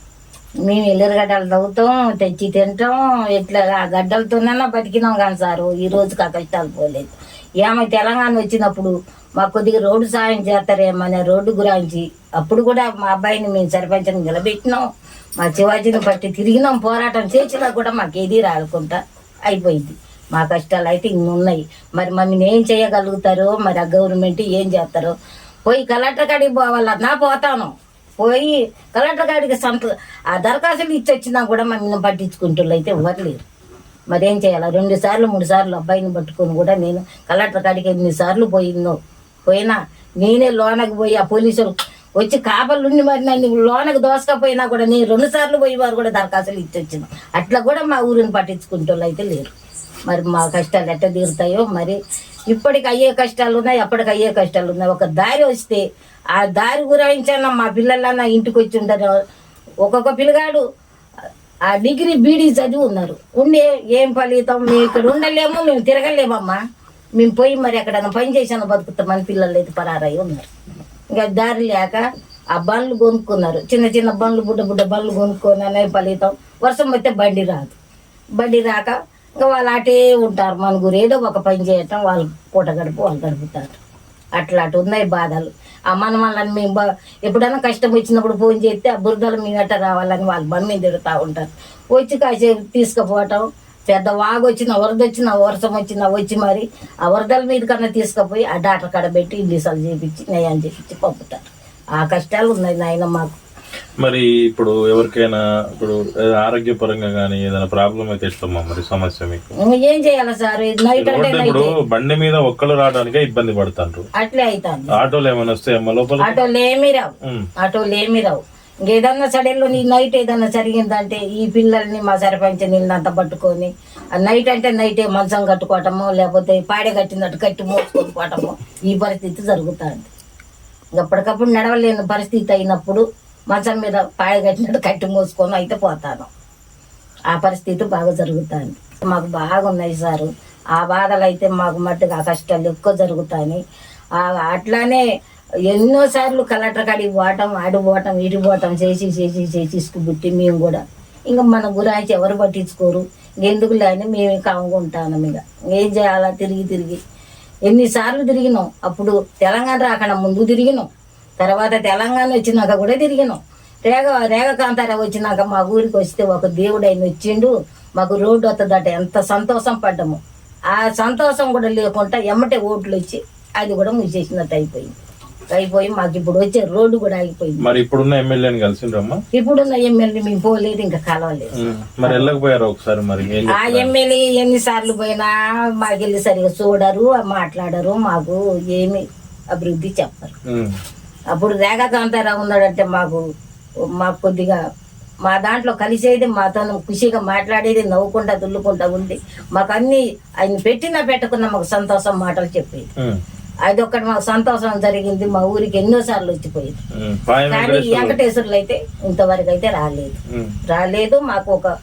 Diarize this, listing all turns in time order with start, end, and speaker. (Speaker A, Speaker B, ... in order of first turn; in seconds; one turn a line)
Speaker A: 0.6-14.8
Speaker A: 15.4-25.1
Speaker A: 25.6-33.4
Speaker A: 34.1-49.5
Speaker A: 50.1-55.8
Speaker A: 56.3-59.2
Speaker A: 59.8-60.6
Speaker A: 61.7-66.6
Speaker A: 67.2-70.5
Speaker A: 71.1-77.7
Speaker A: 78.4-83.8
Speaker A: 84.4-103.4
Speaker B: 104.0-109.4
Speaker A: 109.7-111.7
Speaker B: 111.0-114.0
Speaker A: 114.2-115.0
Speaker B: 114.9-116.4
Speaker A: 116.2-130.1
Speaker A: 130.9-136.3
Speaker A: 137.3-143.6
Speaker A: 144.2-145.0
Speaker A: 145.7-157.0
Speaker A: 157.7-160.9
Speaker A: 161.4-170.2
Speaker A: 170.7-175.0
Speaker A: 175.5-177.6
Speaker B: 177.6-179.2
Speaker A: 179.3-182.2
Speaker B: 181.6-183.9
Speaker A: 183.5-190.3
Speaker B: 190.5-190.7
Speaker A: 191.3-193.2
Speaker A: 194.0-194.6
Speaker A: 195.2-202.9
Speaker A: 203.7-206.8
Speaker B: 206.9-208.2
Speaker A: 207.5-210.2
Speaker B: 210.3-210.6
Speaker A: 210.7-211.7